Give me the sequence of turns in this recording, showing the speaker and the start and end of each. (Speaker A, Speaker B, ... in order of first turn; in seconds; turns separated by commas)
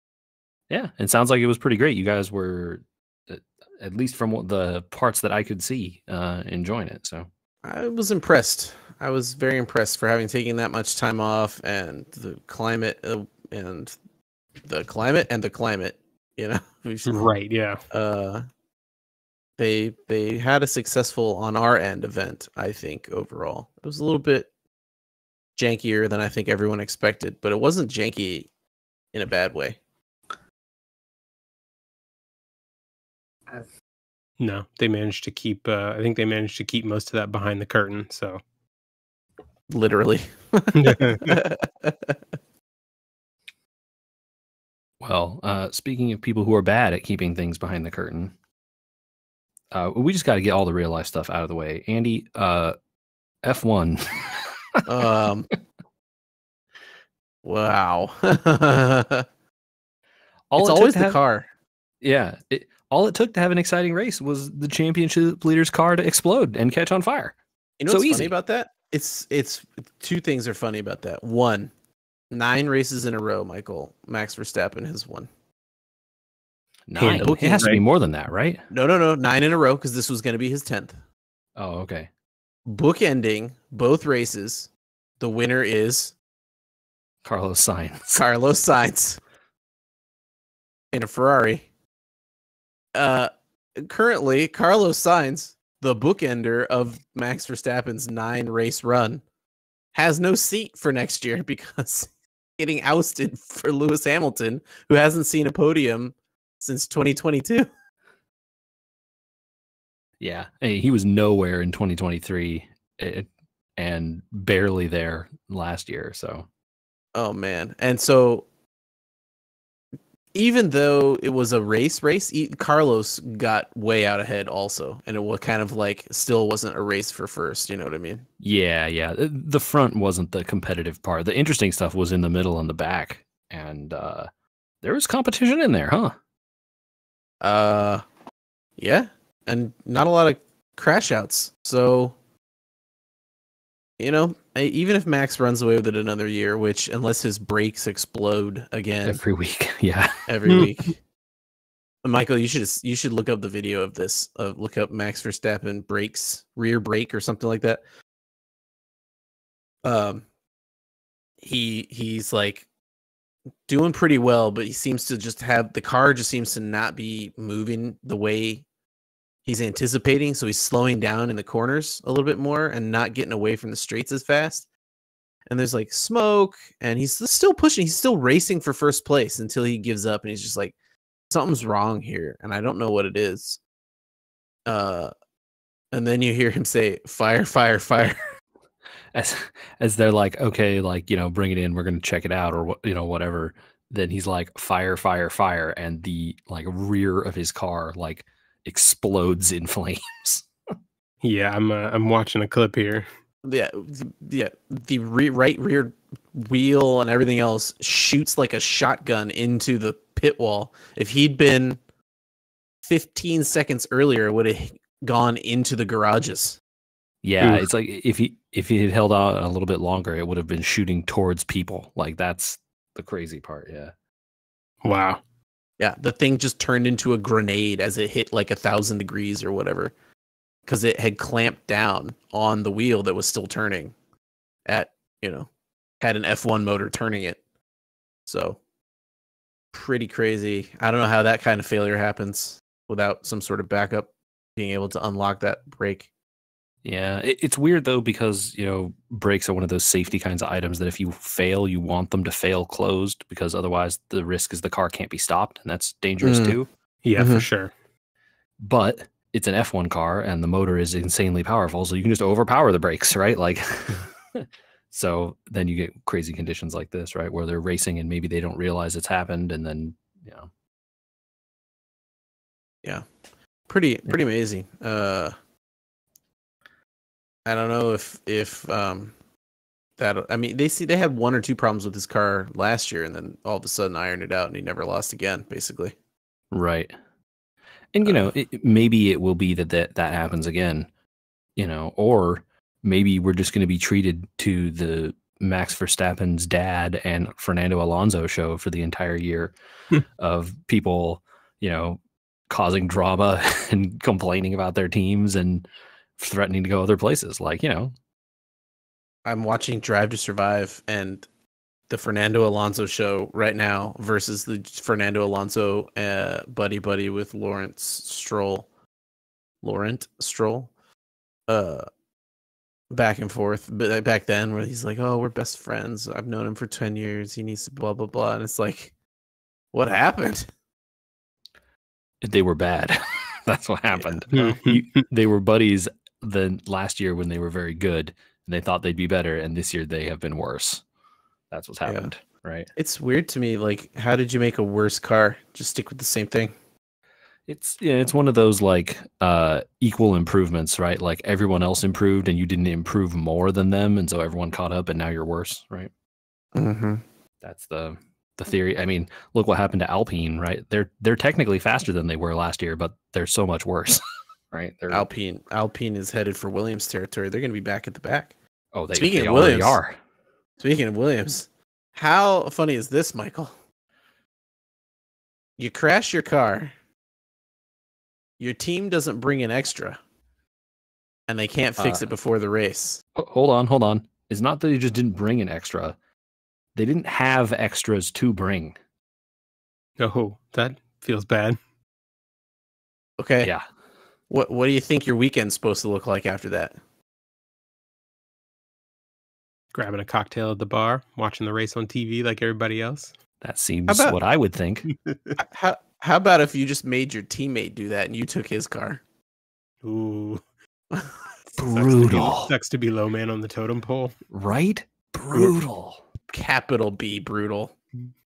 Speaker A: 0.7-7.3, Speaker B: 7.6-13.9, Speaker B: 14.6-17.3, Speaker C: 17.1-17.8, Speaker B: 17.9-18.4, Speaker B: 19.6-24.5, Speaker B: 25.6-28.5, Speaker B: 29.1-29.8, Speaker C: 34.4-38.4, Speaker B: 39.7-42.1, Speaker C: 40.8-41.4, Speaker A: 45.0-48.3, Speaker A: 49.7-52.8, Speaker A: 53.4-54.8, Speaker B: 54.9-55.5, Speaker B: 57.4-59.3, Speaker A: 60.5-61.2, Speaker B: 60.6-61.5, Speaker A: 62.0-67.4, Speaker B: 67.8-71.7, Speaker A: 67.9-68.3, Speaker B: 72.3-75.3, Speaker A: 76.9-78.6, Speaker C: 77.0-77.8, Speaker B: 77.2-77.8, Speaker B: 78.7-81.0, Speaker A: 81.6-82.1, Speaker B: 82.7-84.7, Speaker B: 85.2-86.2, Speaker A: 87.2-88.2, Speaker B: 88.2-89.2, Speaker B: 90.9-91.7, Speaker B: 93.0-99.2, Speaker B: 99.9-107.7, Speaker A: 110.2-116.5, Speaker B: 117.2-118.5, Speaker B: 120.3-128.2, Speaker A: 128.4-134.3, Speaker A: 134.8-136.2, Speaker B: 137.4-138.0, Speaker B: 138.8-142.2, Speaker B: 144.0-149.2, Speaker A: 149.1-150.6, Speaker B: 150.3-151.0, Speaker B: 152.0-157.8, Speaker B: 159.8-160.2, Speaker B: 161.4-162.7, Speaker B: 163.7-168.7, Speaker B: 169.4-174.7, Speaker B: 175.5-180.8, Speaker B: 181.3-183.6, Speaker B: 184.7-185.1, Speaker B: 185.9-188.2, Speaker A: 189.1-200.5, Speaker C: 201.2-203.1, Speaker B: 203.4-211.8, Speaker B: 212.8-216.6, Speaker A: 217.2-223.9, Speaker C: 217.4-217.7, Speaker C: 224.8-225.2, Speaker B: 225.8-229.9, Speaker B: 230.7-233.9, Speaker B: 234.7-235.5, Speaker B: 236.0-237.4, Speaker B: 238.3-238.6, Speaker B: 239.7-246.1, Speaker A: 246.8-256.7, Speaker B: 256.2-256.6, Speaker C: 257.0-257.7, Speaker B: 257.2-257.4, Speaker A: 258.6-270.5, Speaker B: 273.7-275.4, Speaker B: 277.5-279.1, Speaker B: 280.0-285.9, Speaker A: 286.5-286.9, Speaker A: 287.9-290.9, Speaker B: 288.1-288.3, Speaker A: 291.6-299.5, Speaker A: 300.2-305.6, Speaker A: 306.2-307.9, Speaker B: 309.2-311.3, Speaker B: 311.9-318.7, Speaker B: 319.6-320.7, Speaker B: 321.5-321.9, Speaker B: 322.9-328.9, Speaker B: 329.7-330.5, Speaker A: 332.2-340.8, Speaker B: 334.0-334.2, Speaker C: 334.3-335.1, Speaker A: 341.5-342.7, Speaker B: 341.9-342.1, Speaker B: 342.8-346.6, Speaker A: 347.5-355.9, Speaker B: 356.5-357.0, Speaker A: 357.4-365.1, Speaker B: 364.9-368.3, Speaker A: 368.7-370.0, Speaker B: 368.9-369.8, Speaker B: 370.6-373.5, Speaker B: 375.6-376.7, Speaker B: 378.4-380.0, Speaker B: 381.3-383.0, Speaker A: 381.8-382.1, Speaker A: 383.2-386.0, Speaker A: 386.8-388.8, Speaker C: 390.0-391.6, Speaker B: 393.2-393.5, Speaker B: 394.3-396.8, Speaker C: 399.7-403.1, Speaker A: 403.4-404.9, Speaker B: 403.9-404.1, Speaker C: 404.9-405.4, Speaker B: 405.4-409.0, Speaker C: 409.8-410.4, Speaker B: 410.9-411.2, Speaker A: 411.6-412.5, Speaker C: 411.8-414.1, Speaker A: 414.3-416.0, Speaker B: 416.3-417.8